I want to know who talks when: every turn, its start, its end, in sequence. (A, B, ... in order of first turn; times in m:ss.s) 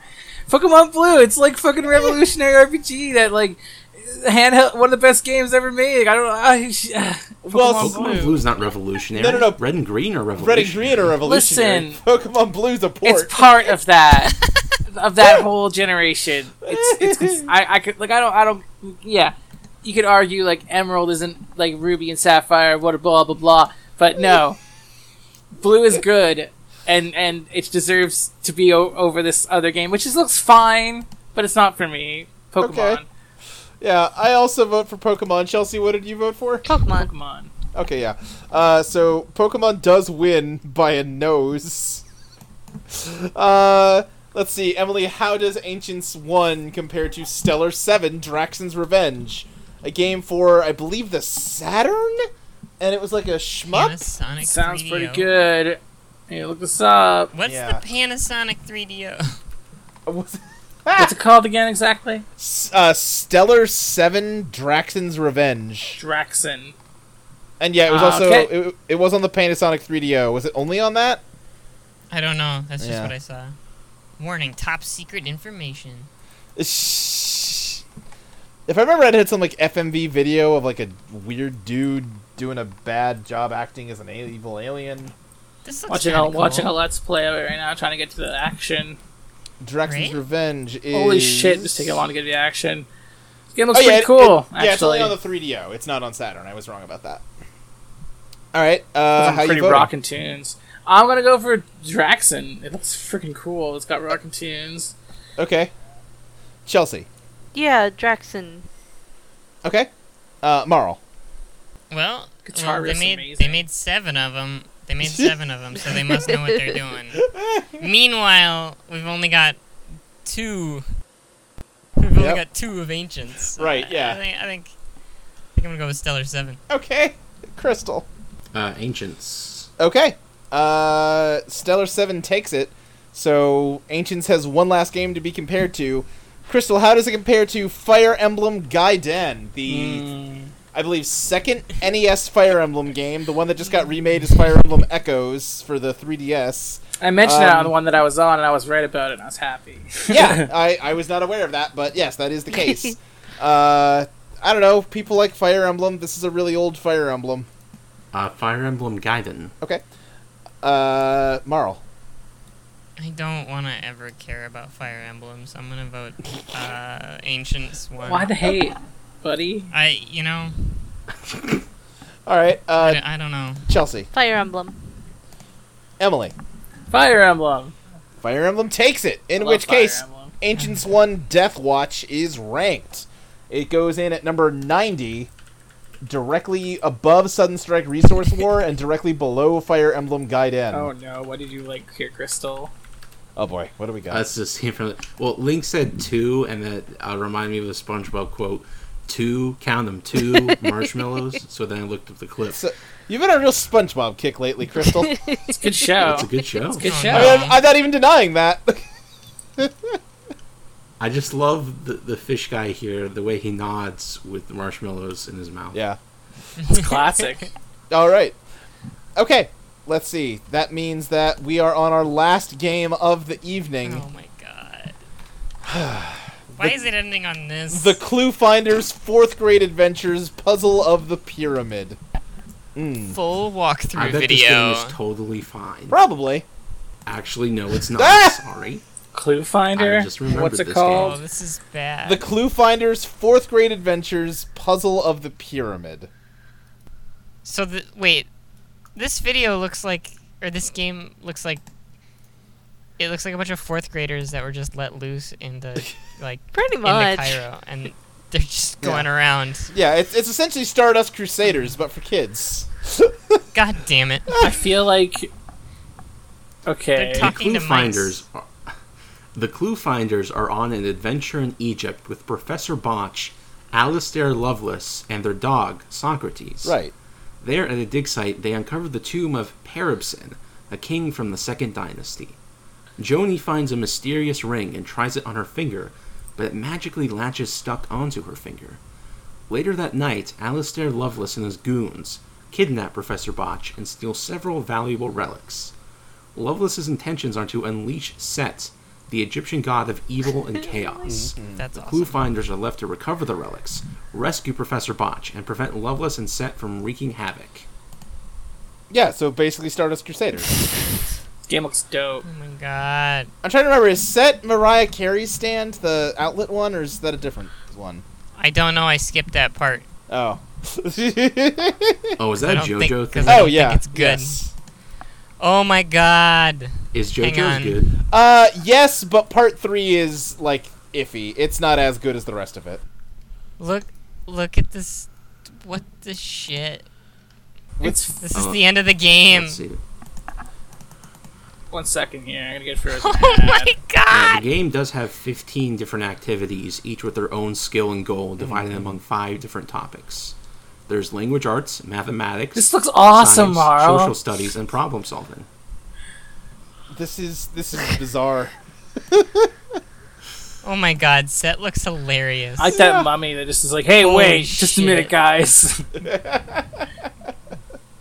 0:00.5-0:08.4 A
0:07.4-0:08.2 B
0:07.7-0:11.0 C
0:09.1-0:09.6 B
0:10.4-0:13.5 B
0:11.2-0:12.0 A
0:13.0-0:14.3 A
0:14.9-0:24.6 A
0:16.6-0:17.5 B
0:24.2-0:24.4 B
0:25.6-0:33.0 A
0:32.6-0:33.0 B
0:33.8-0:36.7 B
0:36.6-0:37.1 D
0:36.9-0:37.5 A
0:37.7-0:42.0 B
0:42.9-0:52.3 B
0:52.8-0:54.0 B
0:53.7-0:55.3 E
0:54.4-0:57.3 A
0:57.3-0:59.3 E
0:57.4-0:57.8 B
1:00.0-1:01.1 B
1:01.0-1:02.2 A
1:02.4-1:06.0 B
1:06.0-1:06.7 A
1:07.6-1:11.2 B
1:07.9-1:08.5 A
1:12.1-1:13.5 E
1:12.8-1:13.1 B
1:14.2-1:16.1 E
1:16.6-1:17.8 B
1:18.7-1:25.1 B
1:25.6-1:26.7 E
1:25.9-1:29.0 A
1:29.6-1:32.0 B
1:29.8-1:30.2 E
1:30.9-1:32.9 A
1:33.5-1:35.2 A
1:33.7-1:37.2 B
1:38.5-1:39.9 B
1:39.2-1:44.9 A
1:45.4-1:45.7 B
1:46.6-1:47.1 B
1:47.5-1:48.7 D
1:49.6-1:49.9 B
1:50.4-1:51.0 B
1:51.9-1:57.2 E
1:52.4-1:53.6 A
1:55.0-1:55.3 B
1:57.2-1:57.8 B
1:57.8-1:59.6 E
2:00.2-2:00.8 E
2:02.0-2:04.7 E
2:02.2-2:02.4 B
2:03.6-2:04.2 B
2:05.6-2:06.6 E
2:06.7-2:08.1 B
2:08.5-2:09.7 C
2:09.8-2:20.1 B
2:19.7-2:20.5 A
2:20.7-2:27.7 B
2:27.0-2:30.5 A
2:30.1-2:37.5 B
2:32.5-2:32.9 D
2:38.1-2:39.5 C
2:40.6-2:41.8 B
2:43.0-2:48.3 E
2:48.0-2:49.7 A
2:49.7-2:50.9 E
2:52.2-2:53.0 B
2:52.8-2:53.7 E
2:53.7-2:54.1 B
2:54.1-2:55.0 D
2:56.0-2:56.3 B
2:56.9-2:57.7 A
2:58.2-3:05.3 B
2:59.4-3:00.3 A
3:06.0-3:10.9 B
3:10.7-3:12.7 A
3:13.4-3:14.2 B
3:14.1-3:22.6 C
3:22.5-3:25.1 B
3:25.0-3:25.6 D
3:25.5-3:27.5 A
3:26.0-3:27.2 C
3:26.8-3:27.6 E
3:27.1-3:28.8 B
3:29.6-3:30.0 B
3:31.0-3:35.8 C
3:35.7-3:36.0 B
3:36.6-3:36.9 E
3:36.7-3:37.5 A
3:37.9-3:38.4 B
3:39.2-3:44.0 B
3:43.8-3:44.9 E
3:45.6-3:46.8 B
3:46.6-3:48.0 E
3:47.7-3:52.0 B
3:52.7-3:53.2 B
3:53.1-3:55.0 E
3:53.9-3:56.0 C
3:55.9-3:56.4 B
3:57.0-3:58.8 C
3:58.0-3:58.4 B
3:59.1-4:01.2 A
3:59.7-4:01.2 C
4:00.9-4:02.2 E
4:02.0-4:06.1 B
4:07.4-4:08.3 E
4:08.9-4:11.6 E
4:13.0-4:19.7 E
4:16.5-4:17.4 D
4:18.8-4:19.1 B
4:19.7-4:23.4 B
4:23.5-4:24.4 E
4:24.4-4:25.3 A
4:26.6-4:27.3 A
4:27.0-4:28.2 E
4:27.2-4:28.6 C
4:29.3-4:36.8 C
4:36.6-4:36.9 B
4:37.4-4:42.4 C
4:43.0-4:48.8 C
4:49.5-4:55.7 C
4:56.3-5:07.6 C
5:01.1-5:01.6 B
5:01.5-5:02.2 E
5:08.9-5:10.6 B
5:11.5-5:12.2 A
5:12.2-5:13.3 E
5:13.4-5:18.0 B
5:18.4-5:19.8 E
5:20.1-5:22.2 B
5:22.2-5:23.7 C
5:22.4-5:24.4 E
5:23.2-5:24.5 B
5:25.4-5:27.8 E
5:26.9-5:28.0 C
5:28.1-5:32.8 B
5:33.6-5:35.1 E
5:35.6-5:36.8 E
5:37.8-5:38.1 B
5:37.8-5:39.6 E
5:38.3-5:39.8 C
5:41.7-5:43.7 A
5:43.0-5:44.4 E
5:44.1-5:50.3 C
5:48.4-5:48.9 B
5:50.9-5:55.5 C
5:52.5-5:54.1 A
5:56.9-5:58.5 B
5:59.1-5:59.5 B
6:00.6-6:02.7 E
6:02.6-6:05.8 A
6:02.7-6:03.1 B
6:04.0-6:05.1 E
6:06.0-6:06.9 B